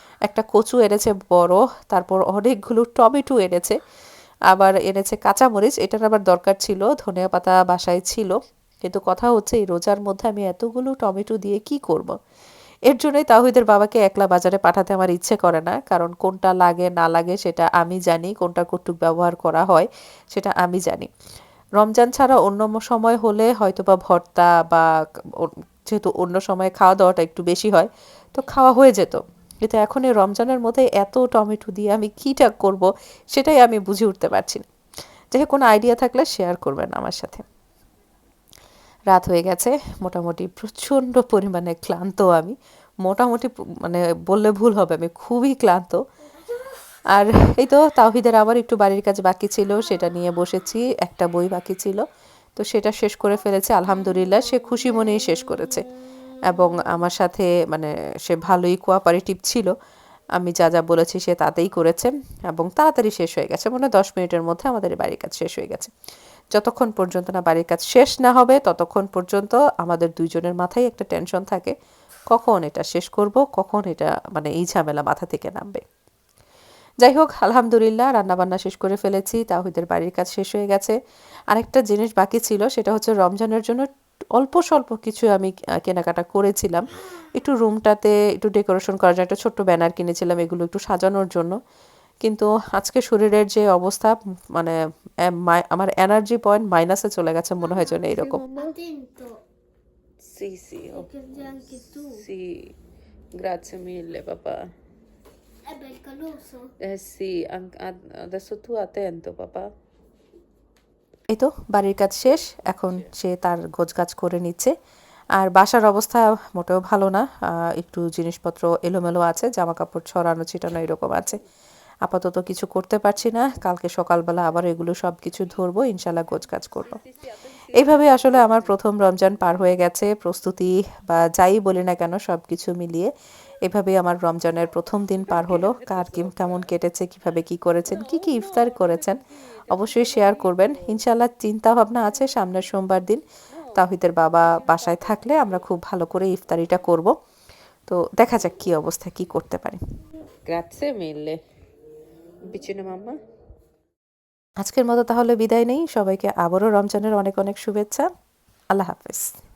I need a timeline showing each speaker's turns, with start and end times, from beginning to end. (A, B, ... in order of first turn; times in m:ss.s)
0:00.2-0:03.8 A
0:04.5-0:12.1 A
0:12.9-0:21.1 A
0:21.8-0:24.8 A
0:25.4-0:34.6 A
0:35.3-0:37.4 A
0:39.1-0:46.0 A
0:47.1-0:52.0 A
0:52.6-0:55.9 A
0:56.4-0:59.7 A
1:00.4-1:05.9 A
1:06.5-1:11.7 A
1:12.3-1:15.8 A
1:17.0-1:21.0 A
1:21.5-1:31.6 A
1:32.2-1:34.8 A
1:35.3-1:38.4 A
1:37.6-1:39.4 B
1:38.1-1:38.8 C
1:40.3-1:42.6 C
1:40.9-1:42.2 B
1:43.4-1:44.6 C
1:45.6-1:46.7 B
1:46.8-1:49.6 C
1:51.3-1:54.7 A
1:55.4-2:01.4 A
2:02.0-2:07.0 A
2:07.0-2:08.8 C
2:07.7-2:13.1 A
2:13.6-2:27.1 A
2:15.4-2:16.6 C
2:17.9-2:21.0 C
2:24.4-2:25.4 C
2:27.9-2:29.8 A
2:30.5-2:31.4 C
2:32.5-2:33.2 C
2:34.6-2:38.1 A
2:38.7-2:39.3 A